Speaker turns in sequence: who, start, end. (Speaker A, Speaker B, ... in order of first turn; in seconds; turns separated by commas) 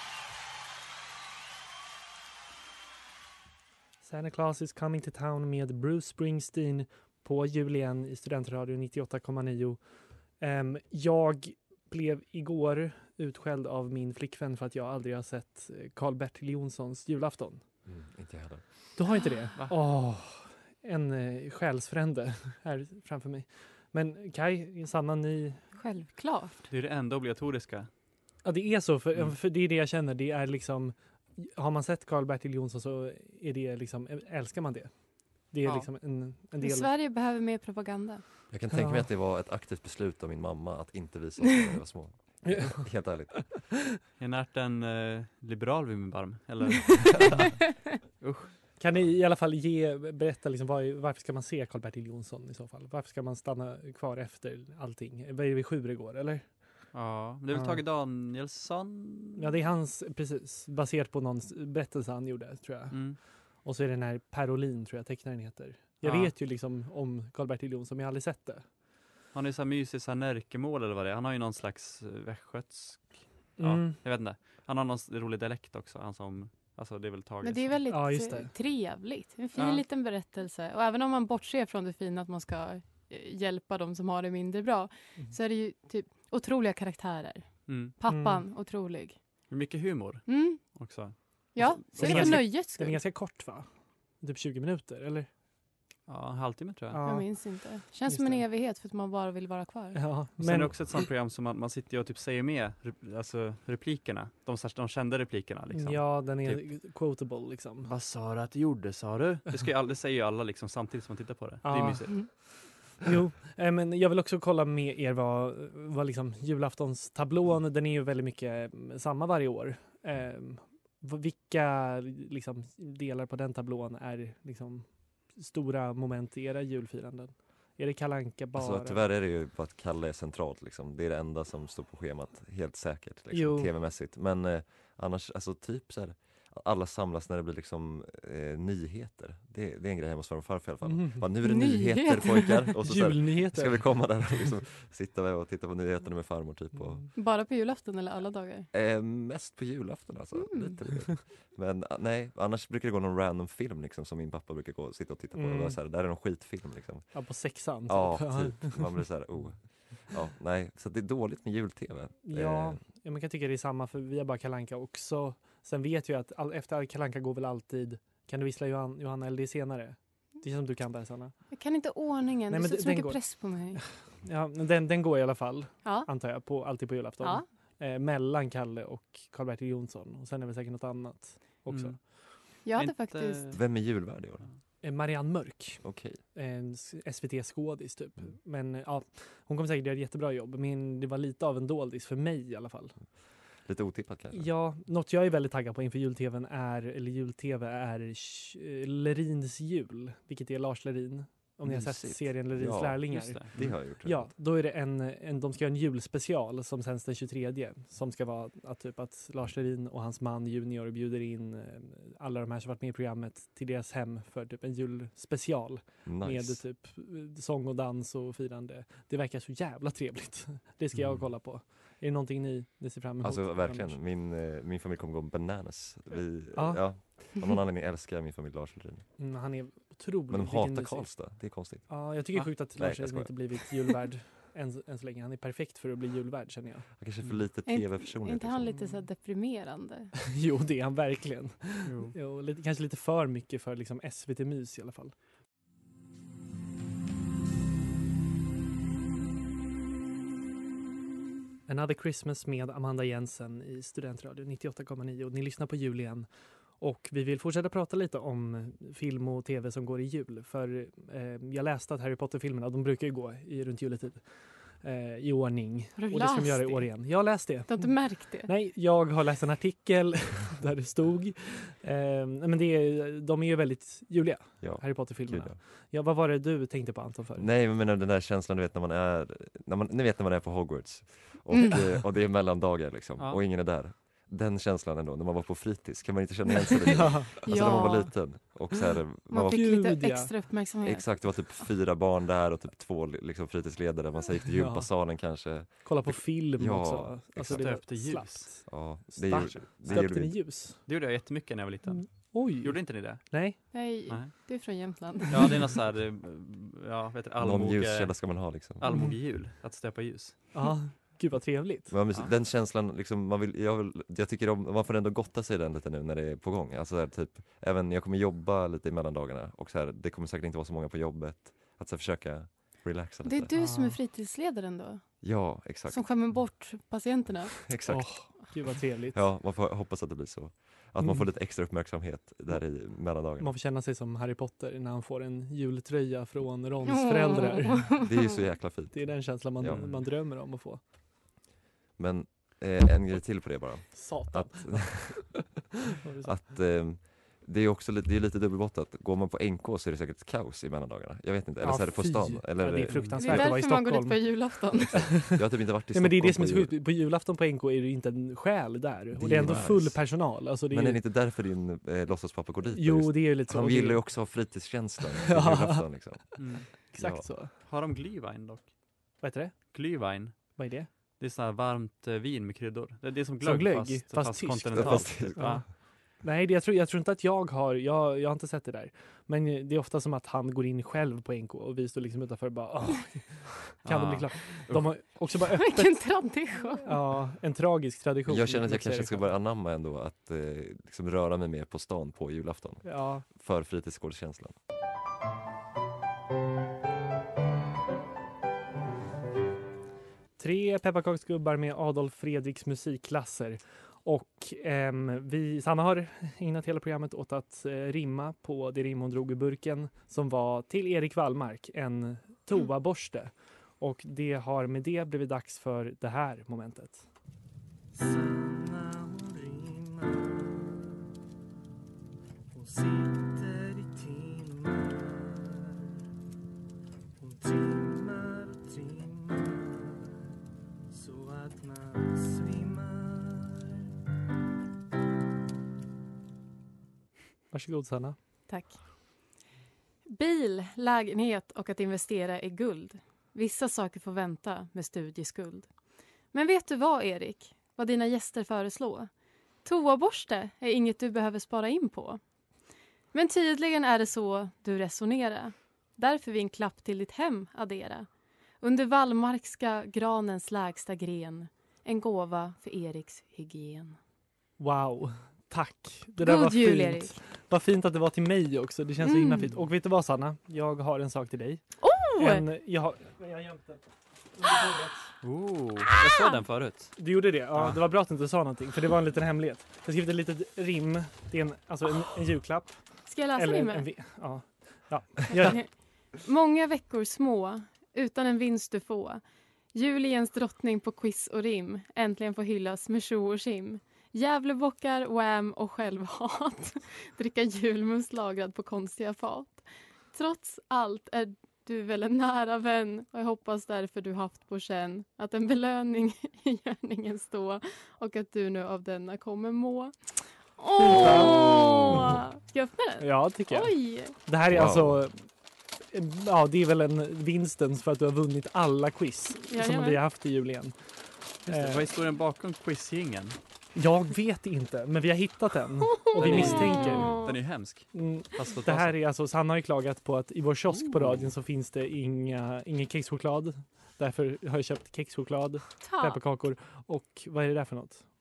Speaker A: 4.0-9.8, Speaker A: 10.4-17.6, Speaker B: 17.9-18.7, Speaker A: 18.9-25.6, Speaker C: 25.7-26.6, Speaker D: 26.7-27.9, Speaker A: 28.4-34.9, Speaker A: 35.5-36.9, Speaker D: 35.6-35.9, Speaker C: 36.6-38.2, Speaker B: 38.5-43.5, Speaker A: 38.7-39.1, Speaker A: 42.4-43.4, Speaker D: 44.2-48.5, Speaker A: 48.8-56.8, Speaker D: 56.9-59.4, Speaker A: 57.5-57.8, Speaker A: 59.4-68.6, Speaker D: 62.9-63.2, Speaker D: 66.0-66.3, Speaker D: 69.3-77.8, Speaker A: 73.6-74.0, Speaker C: 77.4-89.2, Speaker A: 77.9-78.5, Speaker D: 79.5-79.8, Speaker D: 87.7-88.0, Speaker A: 88.1-88.4, Speaker D: 89.5-92.5, Speaker C: 90.3-91.0, Speaker C: 91.5-93.0, Speaker A: 92.0-93.7, Speaker A: 94.2-95.3, Speaker D: 96.1-97.0, Speaker A: 96.9-98.4, Speaker C: 97.0-100.0, Speaker A: 99.9-100.8, Speaker D: 100.4-106.6, Speaker A: 105.7-107.9, Speaker D: 107.8-112.3, Speaker A: 111.6-129.1, Speaker B: 128.6-147.1, Speaker A: 133.3-133.7, Speaker A: 140.8-141.2, Speaker C: 141.4-142.7, Speaker A: 142.8-144.3, Speaker A: 146.8-147.1, Speaker C: 147.1-148.7, Speaker B: 148.7-162.8, Speaker C: 150.3-150.7, Speaker A: 155.3-155.8, Speaker A: 157.1-159.0, Speaker A: 162.2-171.4, Speaker C: 171.5-173.8, Speaker A: 172.5-182.0, Speaker C: 175.8-176.1, Speaker D: 181.7-183.6, Speaker C: 182.6-183.5, Speaker B: 183.5-184.4, Speaker A: 184.8-192.9, Speaker B: 185.8-186.2, Speaker B: 193.6-194.5, Speaker A: 194.3-224.0, Speaker D: 201.7-202.1, Speaker B: 201.7-204.3, Speaker D: 203.1-203.7, Speaker B: 216.0-216.6, Speaker B: 223.2-229.1, Speaker A: 226.5-226.8, Speaker A: 229.2-236.8, Speaker B: 230.3-232.1, Speaker B: 232.7-233.9, Speaker B: 237.0-238.7, Speaker C: 237.7-240.1, Speaker A: 240.3-245.1, Speaker D: 241.8-242.1, Speaker A: 251.7-256.3, Speaker A: 256.8-264.2, Speaker A: 264.8-277.5, Speaker C: 266.0-266.9, Speaker C: 267.6-268.5, Speaker B: 274.6-275.6, Speaker B: 277.4-290.1, Speaker A: 287.0-287.4, Speaker C: 287.4-288.4, Speaker C: 289.3-291.6, Speaker A: 289.5-290.3, Speaker B: 290.8-297.9, Speaker A: 294.5-300.9, Speaker D: 297.4-298.7, Speaker B: 298.7-300.4, Speaker D: 299.3-300.2, Speaker D: 300.8-303.4, Speaker A: 301.9-303.6, Speaker C: 303.7-305.5, Speaker D: 305.3-310.4, Speaker B: 307.4-308.8, Speaker A: 308.9-309.2, Speaker A: 310.5-311.9, Speaker B: 311.9-323.5, Speaker C: 323.2-327.7, Speaker A: 323.5-324.0, Speaker B: 325.2-326.4, Speaker B: 327.6-328.6, Speaker A: 327.9-329.2, Speaker B: 329.1-333.5, Speaker A: 333.4-338.1, Speaker C: 336.9-338.3, Speaker B: 338.0-339.8, Speaker A: 338.9-340.8, Speaker D: 339.7-340.1, Speaker B: 342.0-345.7, Speaker A: 343.9-346.4, Speaker B: 346.2-353.5, Speaker A: 351.6-355.4, Speaker D: 352.9-353.2, Speaker C: 353.2-355.2, Speaker B: 354.9-356.7, Speaker A: 355.9-361.0, Speaker B: 359.1-367.3, Speaker A: 362.7-364.6, Speaker A: 365.2-367.5, Speaker D: 366.4-366.7, Speaker D: 367.6-369.2, Speaker A: 369.2-369.8, Speaker D: 369.7-375.6, Speaker A: 370.3-370.9, Speaker A: 373.4-386.1, Speaker B: 374.7-375.7, Speaker D: 383.8-384.9, Speaker C: 385.5-386.9, Speaker A: 386.8-389.3, Speaker B: 388.3-394.5, Speaker A: 392.8-393.2, Speaker A: 400.4-417.0, Speaker A: 417.9-420.8, Speaker A: 422.5-425.9, Speaker A: 427.2-430.0, Speaker A: 430.9-433.7, Speaker A: 437.5-438.1, Speaker C: 438.5-439.0, Speaker C: 440.1-445.7, Speaker C: 446.3-449.1, Speaker C: 449.6-452.2, Speaker C: 453.1-458.1, Speaker C: 458.6-464.0, Speaker A: 464.6-471.6, Speaker C: 466.2-467.2, Speaker C: 469.0-469.5, Speaker C: 471.8-472.4, Speaker A: 472.1-473.8, Speaker A: 474.4-475.1, Speaker D: 475.2-477.0, Speaker A: 477.0-482.8, Speaker D: 477.5-477.8, Speaker C: 483.1-483.9, Speaker A: 483.3-485.6, Speaker C: 485.3-489.2, Speaker C: 489.7-514.1, Speaker A: 510.8-512.1, Speaker A: 513.0-515.2, Speaker B: 514.5-515.0, Speaker A: 515.9-520.7, Speaker C: 519.5-520.0, Speaker A: 521.5-521.9, Speaker D: 521.5-523.4, Speaker A: 523.7-527.2, Speaker C: 526.0-527.3, Speaker D: 526.2-529.0, Speaker A: 527.9-538.0, Speaker D: 530.7-531.3, Speaker C: 535.8-536.2